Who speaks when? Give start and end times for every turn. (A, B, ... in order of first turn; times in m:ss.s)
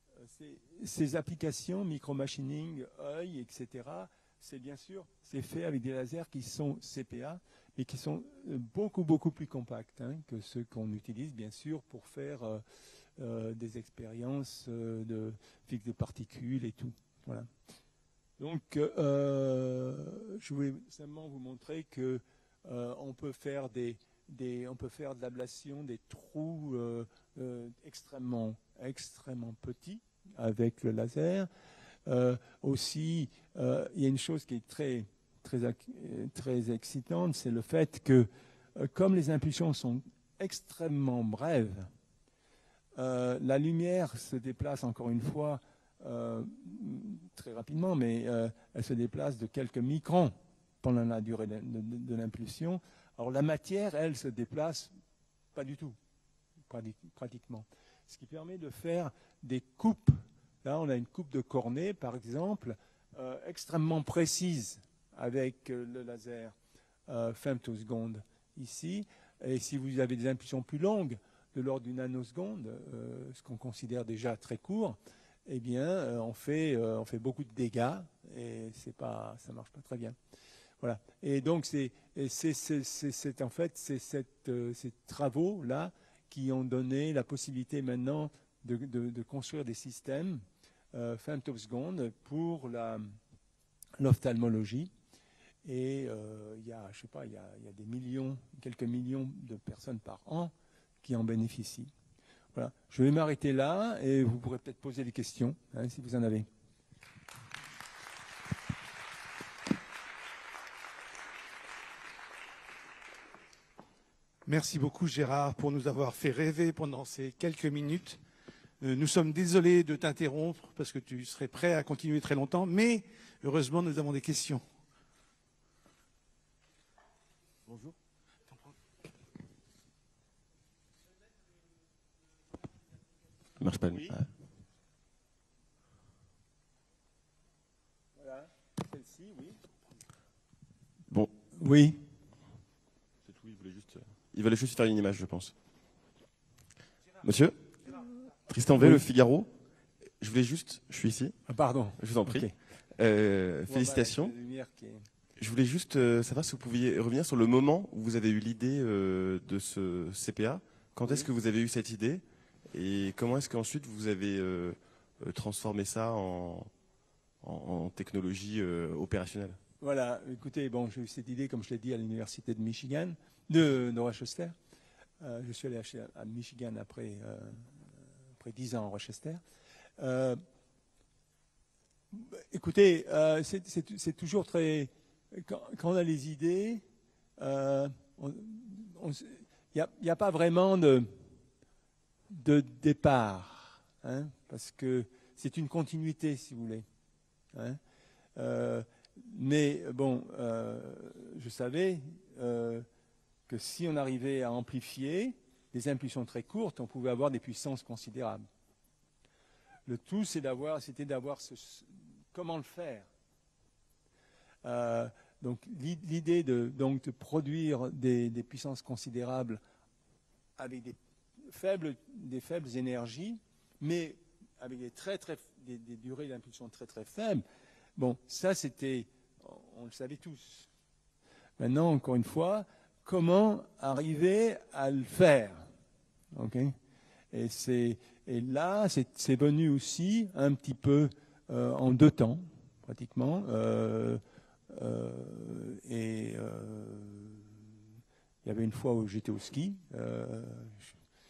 0:00.2-0:12.6 A
0:13.2-0:17.5 A
0:18.4-0:31.5 A
0:32.1-0:41.9 A
0:43.0-0:54.9 A
0:55.6-0:56.0 A
0:56.7-1:06.5 A
1:07.1-1:20.2 A
1:20.8-1:30.4 A
1:30.9-1:33.1 A
1:34.0-1:34.9 A
1:35.6-1:40.5 A
1:41.0-1:41.9 A
1:42.5-1:46.5 A
1:54.5-1:58.2 B
1:58.8-2:04.6 B
2:07.7-2:08.0 C
2:13.6-2:14.3 C
2:18.2-2:19.6 A
2:21.6-2:22.0 A
2:23.2-2:25.5 C
2:27.2-2:29.5 C
2:30.2-2:31.4 C
2:31.5-2:32.5 A
2:32.0-2:34.3 C
2:33.7-2:35.0 A
2:35.4-2:46.7 C
2:47.4-2:49.6 C
2:49.8-2:54.5 A
2:55.2-2:57.7 A
2:58.4-2:59.4 A
3:00.0-3:00.4 A
3:02.1-3:06.8 A
3:07.4-3:11.2 A
3:12.3-3:16.8 A
3:17.5-3:17.8 A
3:18.4-3:22.9 A
3:23.5-3:28.4 A
3:29.9-3:33.1 A
3:34.6-3:39.6 A
3:40.6-3:47.4 A
3:48.0-3:50.7 A
3:51.6-3:55.7 A
3:56.4-3:56.8 A
3:57.3-4:07.7 A
4:08.4-4:11.0 A